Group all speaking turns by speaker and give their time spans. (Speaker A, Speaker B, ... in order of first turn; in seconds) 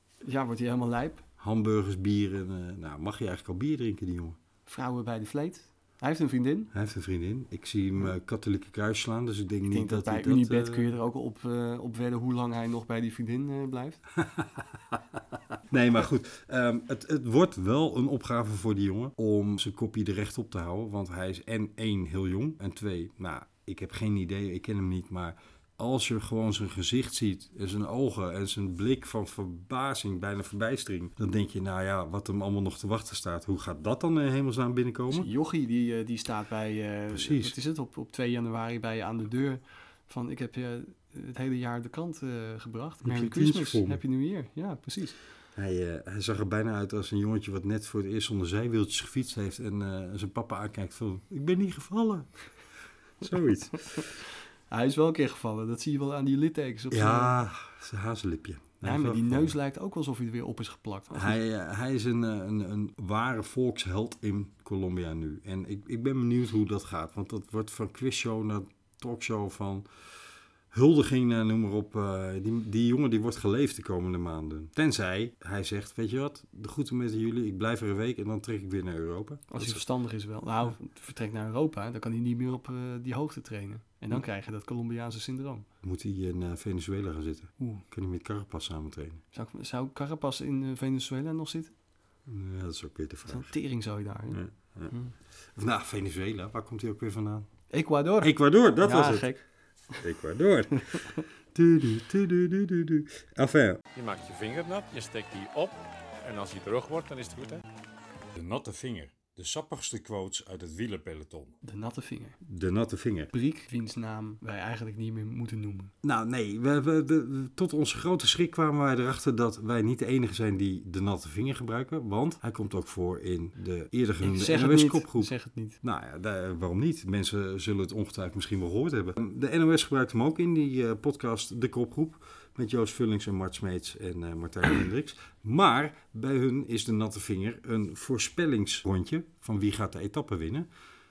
Speaker A: 0.2-1.2, 4.7-6.7, 9.7-14.0, 35.1-45.2, 53.9-57.4, 58.8-61.4, 79.5-85.7, 89.3-91.7, 93.3-95.1, 97.7-99.4, 100.8-101.2, 111.6-112.4, 113.3-115.9, 124.2-125.8
Speaker B: 1.4-4.4, 6.7-10.9, 14.2-15.0, 15.7-35.3, 37.1-37.5, 43.0-44.0, 45.5-52.4, 53.2-54.1, 56.9-59.5, 61.1-69.9, 70.7-79.8, 85.8-89.2, 92.3-93.5, 94.3-94.9, 95.5-97.5, 98.2-99.3, 100.0-103.8, 108.3-111.6, 112.4-113.3, 116.0-140.7
Speaker C: 104.0-107.6